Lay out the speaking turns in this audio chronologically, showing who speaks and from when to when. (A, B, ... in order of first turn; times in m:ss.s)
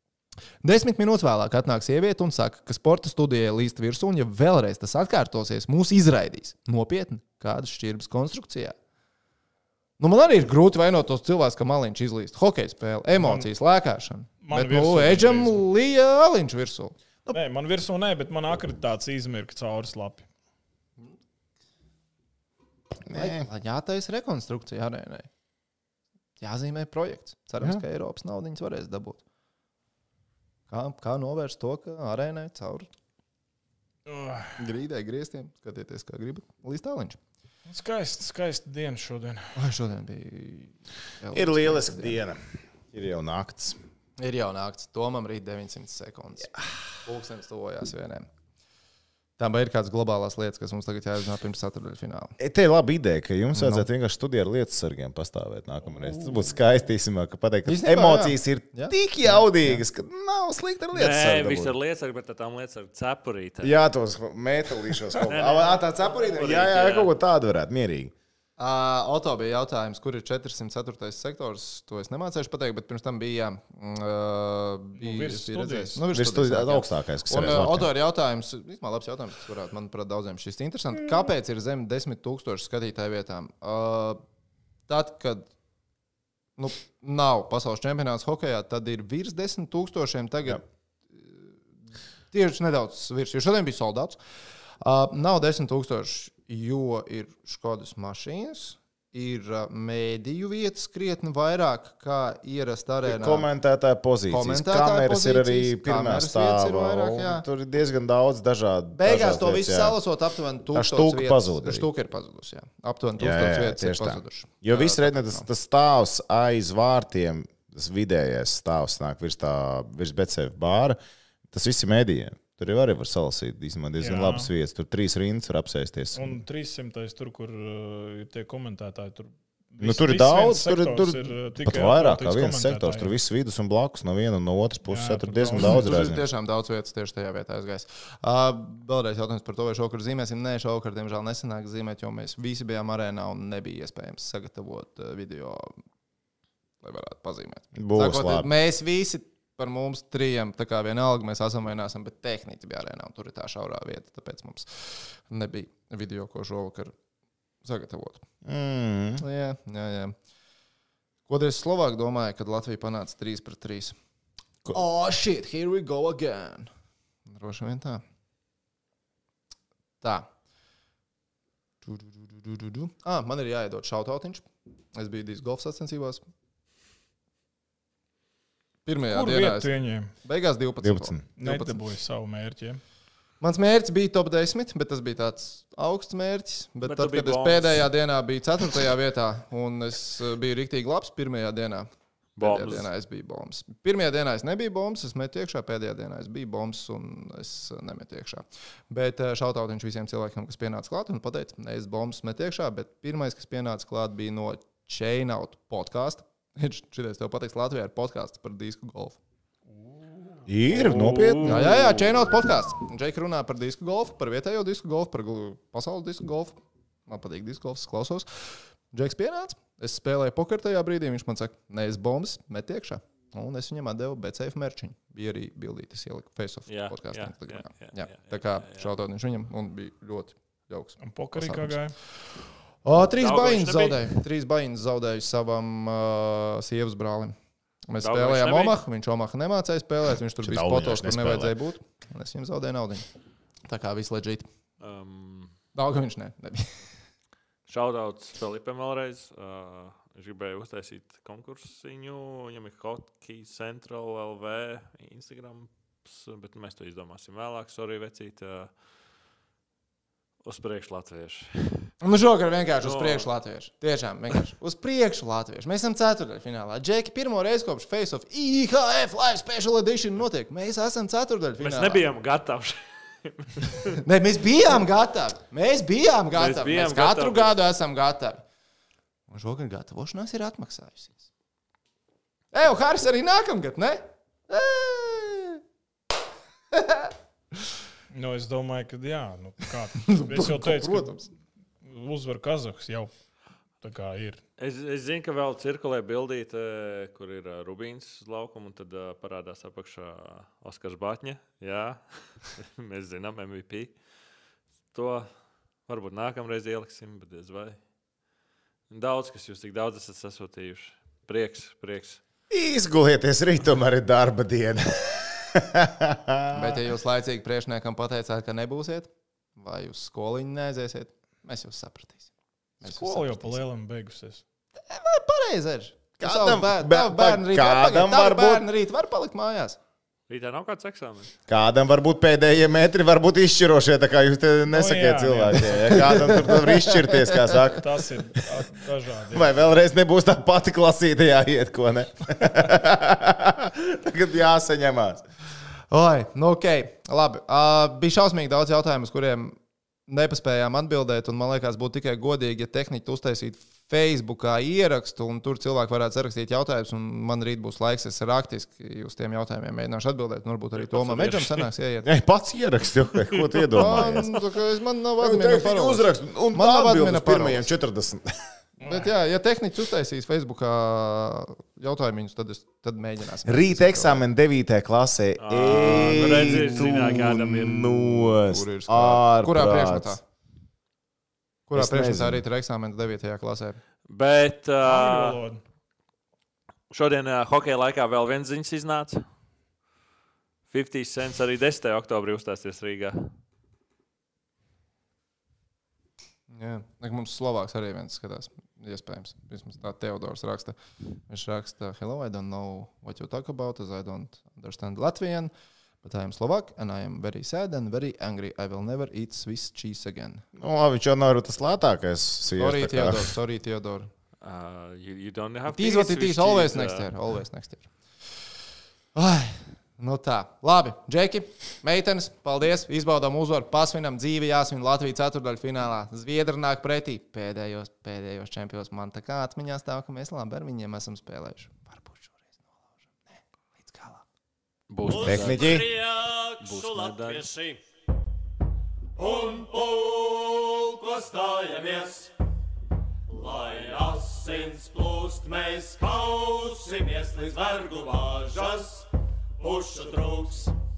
0:00.6-0:08.8 A
0:10.0-0:17.4 A
0:13.2-0:13.5 B
0:14.4-0:15.6 B
0:17.3-0:20.2 B
0:23.0-0:23.4 C
0:23.1-0:25.3 A
0:26.4-0:29.2 A
0:30.7-0:32.9 A
0:34.0-0:34.6 B
0:34.6-0:37.2 A
0:37.6-0:39.5 B
0:39.5-0:42.2 A
0:41.3-0:42.4 C
0:42.9-0:43.8 C
0:44.2-0:48.3 A
0:49.4-0:52.4 A
0:52.4-1:01.7 C
0:53.5-0:53.9 A
0:57.6-0:59.8 A
1:00.9-1:03.7 D
1:03.6-1:08.1 C
1:05.3-1:07.1 D
1:08.6-1:24.2 A
1:15.0-1:16.0 B
1:16.1-1:17.9 C
1:24.9-1:25.5 A
1:26.6-1:30.6 A
1:31.1-1:31.5 A
1:32.3-1:34.2 A
1:34.8-1:43.5 A
1:43.0-1:50.0 C
1:44.3-1:47.4 A
1:48.9-1:55.5 A
1:50.7-1:51.9 C
1:53.2-2:01.0 C
2:01.5-2:06.4 C
2:04.0-2:04.5 B
2:06.1-2:13.1 B
2:09.8-2:16.2 C
2:14.9-2:15.9 B
2:15.6-2:25.8 A
2:26.8-2:36.9 A
2:27.7-2:28.5 C
2:37.6-2:38.2 A
2:38.4-2:39.2 C
2:39.2-2:40.2 A
2:41.3-2:44.0 A
2:44.7-2:46.7 A
2:47.3-2:48.0 A
2:50.0-2:50.3 A
2:51.8-2:56.2 A
2:58.8-3:01.8 A
2:59.1-3:00.1 B
3:00.8-3:01.2 C
3:01.4-3:02.8 B
3:03.4-3:29.2 A
3:06.8-3:07.8 D
3:12.4-3:12.9 D
3:29.7-3:30.5 B
3:30.4-3:31.7 C
3:30.7-3:32.0 D
3:31.4-3:51.8 A
3:46.7-3:48.9 D
3:51.0-3:52.0 B
3:52.8-3:57.3 A
3:53.2-3:54.1 D
3:57.9-4:03.0 A
3:58.0-3:58.8 D
4:00.4-4:01.5 C
4:03.7-4:04.5 A
4:04.8-4:05.5 D
4:05.7-4:06.8 A
4:07.7-4:18.7 D
4:20.4-4:21.9 D
4:22.0-4:32.1 A
4:22.8-4:23.3 D
4:31.6-4:34.0 D
4:33.9-4:38.4 A
4:36.3-4:37.5 D
4:39.3-4:41.3 A
4:42.5-4:45.6 A
4:46.7-4:47.1 A
4:48.1-4:51.2 B
4:49.9-4:51.3 A
4:51.8-4:53.1 B
4:53.8-4:54.4 B
4:54.6-5:03.9 D
5:04.9-5:05.3 D
5:05.9-5:07.8 D
5:08.9-5:12.2 D
5:12.5-5:16.8 C
5:16.5-5:22.3 A
5:22.8-5:23.6 A
5:22.8-5:24.4 B
5:24.8-5:29.8 A
5:26.2-5:28.6 C
5:30.3-5:31.3 D
5:31.5-5:37.8 C
5:34.7-5:36.4 B
5:35.9-5:37.5 A
5:37.6-5:39.6 B
5:38.4-5:38.7 C
5:39.3-5:45.2 C
5:45.9-6:02.1 A
6:00.9-6:01.6 B
6:02.0-6:04.4 C
6:03.7-6:07.7 A
6:05.2-6:08.3 C
6:08.8-6:14.2 A
6:08.8-6:09.1 B
6:13.4-6:20.2 C
6:15.4-6:18.2 D
6:15.7-6:16.9 A
6:18.2-6:20.2 A
6:21.7-6:23.8 A
6:21.7-6:22.4 C
6:24.1-6:25.4 D
6:24.8-6:25.6 B
6:26.9-6:29.2 D
6:30.7-6:33.3 D
6:36.5-6:40.8 A
6:41.3-6:45.5 A
6:46.0-6:50.4 A
6:50.6-6:53.4 C
6:52.6-6:54.1 A
6:54.4-6:57.1 D
6:55.7-6:57.9 A
6:59.1-7:12.6 A
7:13.3-7:14.2 A
7:14.9-7:16.0 D
7:15.0-7:17.8 E
7:15.1-7:15.9 C
7:16.6-7:17.5 D
7:19.2-7:22.3 E
7:23.3-7:29.1 E
7:29.6-7:30.7 E